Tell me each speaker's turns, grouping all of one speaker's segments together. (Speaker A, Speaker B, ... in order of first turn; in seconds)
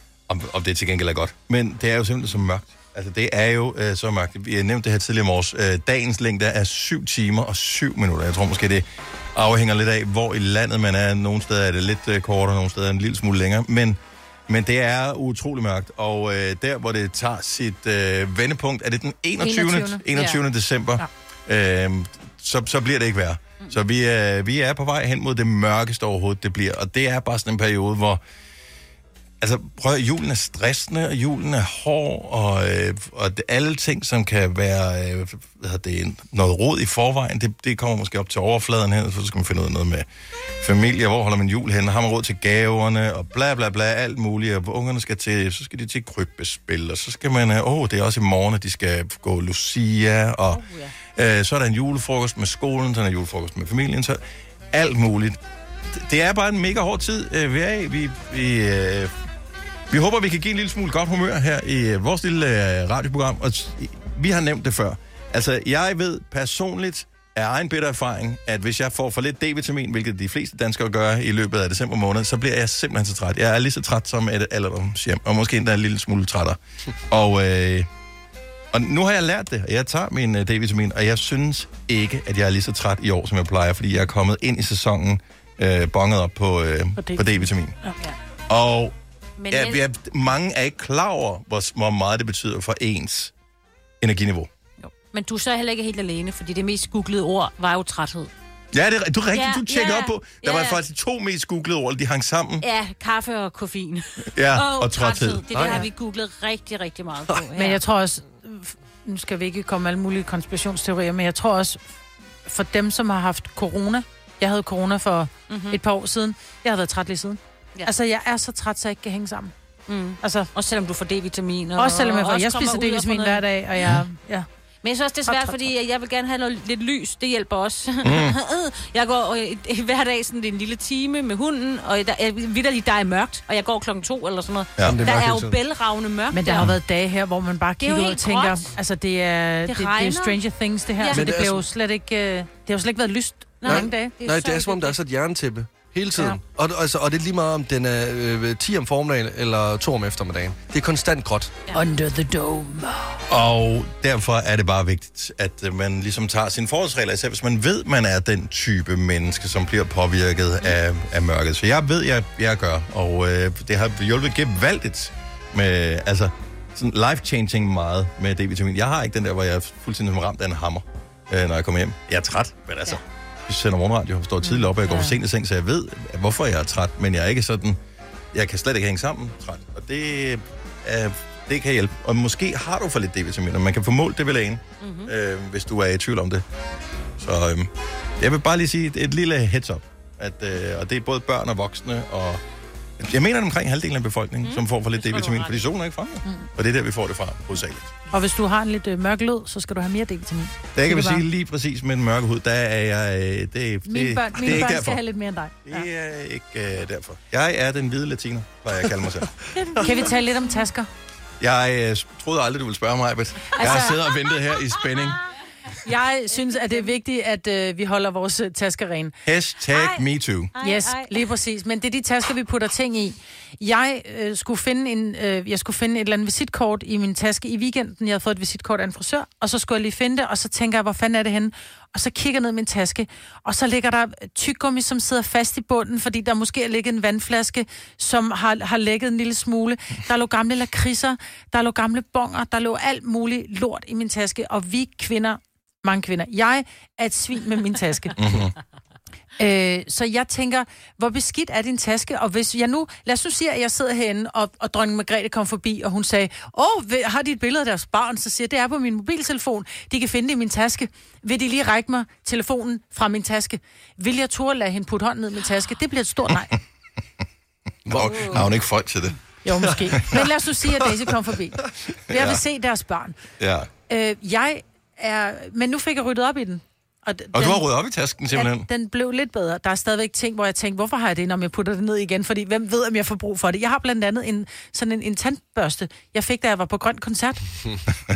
Speaker A: 0.3-28.2, 29.4-40.1, 40.6-50.6, 51.1-55.4, 55.9-59.1, 59.9-76.6, 77.1-77.9, 78.7-87.8, 88.5-89.0, 89.5-93.3, 94.0-94.5, 98.7-102.7, 104.3-105.5, 128.0-128.4, 134.8-135.0, 153.3-177.8, 178.3-186.4, 187.2-192.4, 193.0-197.9, 200.8-205.0, 205.7-209.4, 211.4-215.2, 219.2-220.5, 248.2-248.5, 267.9-269.2, 272.1-272.4, 273.4-273.7, 277.3-278.7
Speaker B: 19.4-20.1, 87.0-88.0, 107.5-111.8, 112.5-119.5, 120.2-120.5, 121.8-124.5, 125.3-125.7, 136.3-144.2, 151.7-152.9, 198.1-201.2, 203.8-205.9, 209.8-210.9, 213.6-214.0, 215.8-219.2, 220.6-248.2, 249.4-266.5, 269.4-273.2, 273.9-277.7, 278.3-287.4
Speaker C: 50.5-50.9, 89.4-89.8, 94.8-98.3, 99.3-100.8, 102.6-107.8, 115.5-115.8, 119.9-124.0, 124.8-136.7, 137.8-138.7, 139.7-140.4, 141.0-141.3, 143.6-145.0, 174.5-175.1, 184.8-185.1, 194.4-195.6, 213.6-213.9, 216.3-216.9, 219.7-221.2
Speaker D: 105.5-105.9, 134.8-135.6, 141.1-141.7, 143.7-151.5, 267.9-268.4